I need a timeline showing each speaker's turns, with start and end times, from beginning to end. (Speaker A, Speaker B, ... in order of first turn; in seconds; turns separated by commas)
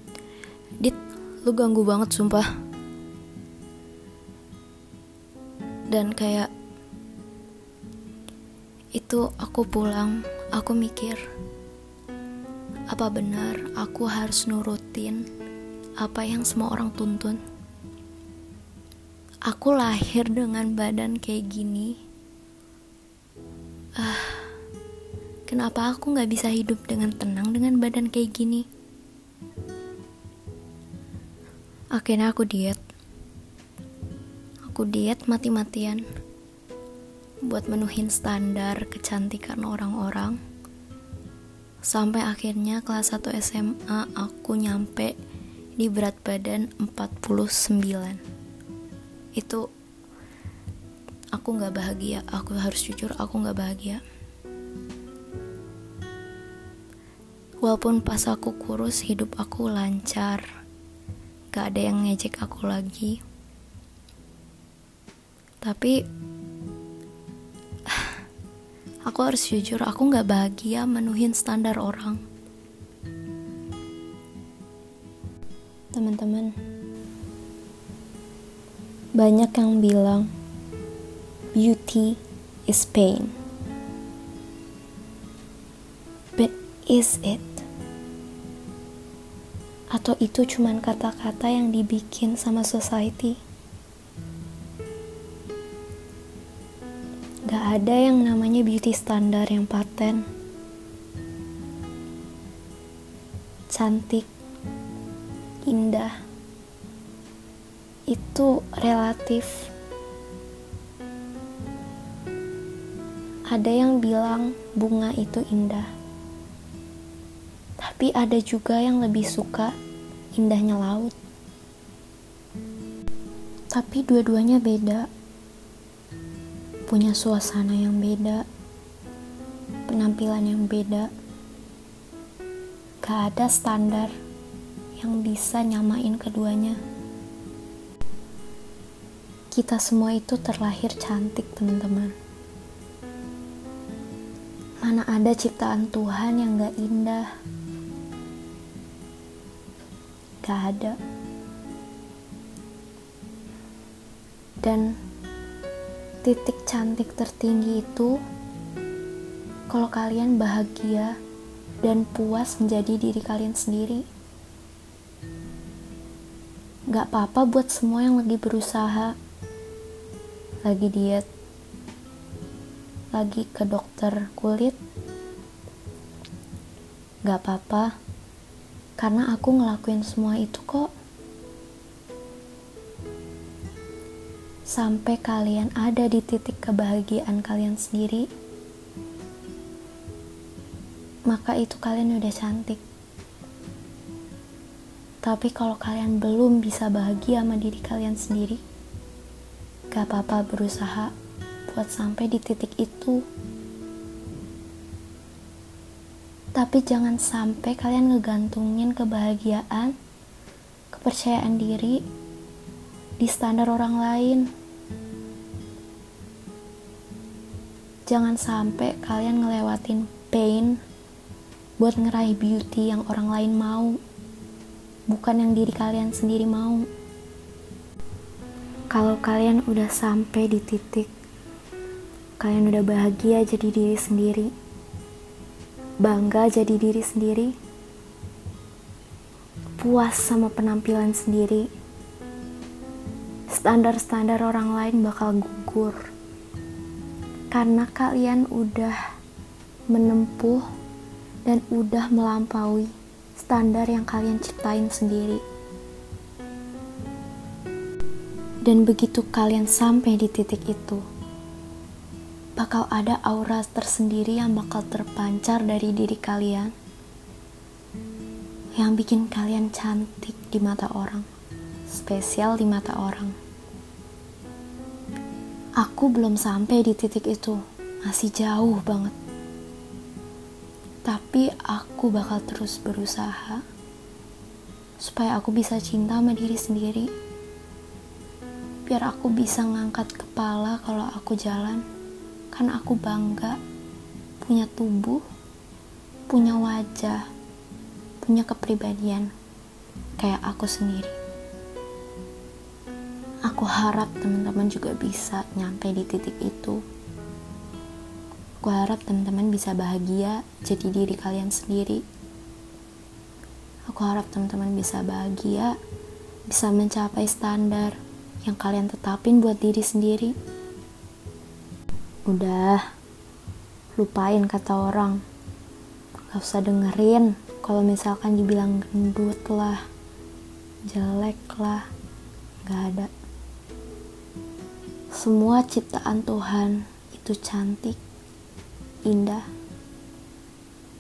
Speaker A: 0.8-2.5, Speaker A: 5.9-6.5, Speaker A: 8.9-11.2, Speaker A: 12.9-15.2, Speaker A: 16.0-17.4, Speaker A: 19.5-22.0, Speaker A: 24.0-24.5, Speaker A: 25.5-28.7, Speaker A: 31.9-32.8, Speaker A: 34.6-36.0, Speaker A: 37.4-40.4, Speaker A: 41.8-45.1, Speaker A: 45.8-48.2, Speaker A: 49.4-49.6, Speaker A: 51.3-54.0, Speaker A: 57.6-60.5, Speaker A: 61.5-63.2, Speaker A: 65.6-66.0, Speaker A: 69.0-72.2, Speaker A: 75.9-76.5, Speaker A: 79.2-80.3, Speaker A: 81.5-83.3, Speaker A: 86.4-87.6, Speaker A: 89.9-93.4, Speaker A: 97.5-100.2, Speaker A: 103.7-104.3, Speaker A: 105.7-106.2, Speaker A: 108.1-109.7, Speaker A: 113.5-115.9, Speaker A: 117.8-119.7, Speaker A: 120.3-121.1, Speaker A: 123.7-125.1, Speaker A: 126.9-128.4, Speaker A: 129.9-131.1, Speaker A: 133.0-134.1, Speaker A: 135.0-136.8, Speaker A: 139.5-142.1, Speaker A: 144.8-147.3, Speaker A: 150.4-151.0, Speaker A: 154.6-154.9, Speaker A: 156.2-158.2, Speaker A: 159.7-161.1, Speaker A: 161.8-164.1, Speaker A: 166.9-169.1, Speaker A: 170.6-171.2, Speaker A: 173.1-174.8, Speaker A: 177.2-177.9, Speaker A: 179.0-180.9, Speaker A: 184.7-188.2, Speaker A: 191.3-192.8, Speaker A: 195.2-198.6, Speaker A: 199.9-201.1, Speaker A: 201.7-203.2, Speaker A: 206.5-209.9, Speaker A: 210.9-212.0, Speaker A: 213.2-214.5, Speaker A: 218.1-220.8, Speaker A: 221.8-224.0, Speaker A: 225.1-226.9, Speaker A: 228.9-231.1, Speaker A: 232.4-234.5, Speaker A: 236.0-237.5, Speaker A: 239.8-241.7, Speaker A: 243.5-246.0, Speaker A: 247.5-249.0, Speaker A: 249.9-250.6, Speaker A: 251.4-255.4, Speaker A: 258.6-261.0, Speaker A: 262.6-266.7, Speaker A: 268.8-271.2, Speaker A: 271.9-273.3, Speaker A: 275.8-279.1, Speaker A: 281.1-283.6, Speaker A: 285.0-287.1, Speaker A: 288.9-291.8, Speaker A: 292.5-293.6, Speaker A: 294.4-295.2, Speaker A: 296.3-297.2, Speaker A: 298.2-299.3, Speaker A: 300.2-301.1, Speaker A: 303.5-306.8, Speaker A: 308.6-312.0, Speaker A: 313.9-315.7, Speaker A: 316.5-320.3, Speaker A: 322.2-322.8, Speaker A: 323.9-325.2, Speaker A: 326.3-329.8, Speaker A: 330.9-331.9, Speaker A: 332.6-333.1, Speaker A: 335.1-338.0, Speaker A: 339.0-339.5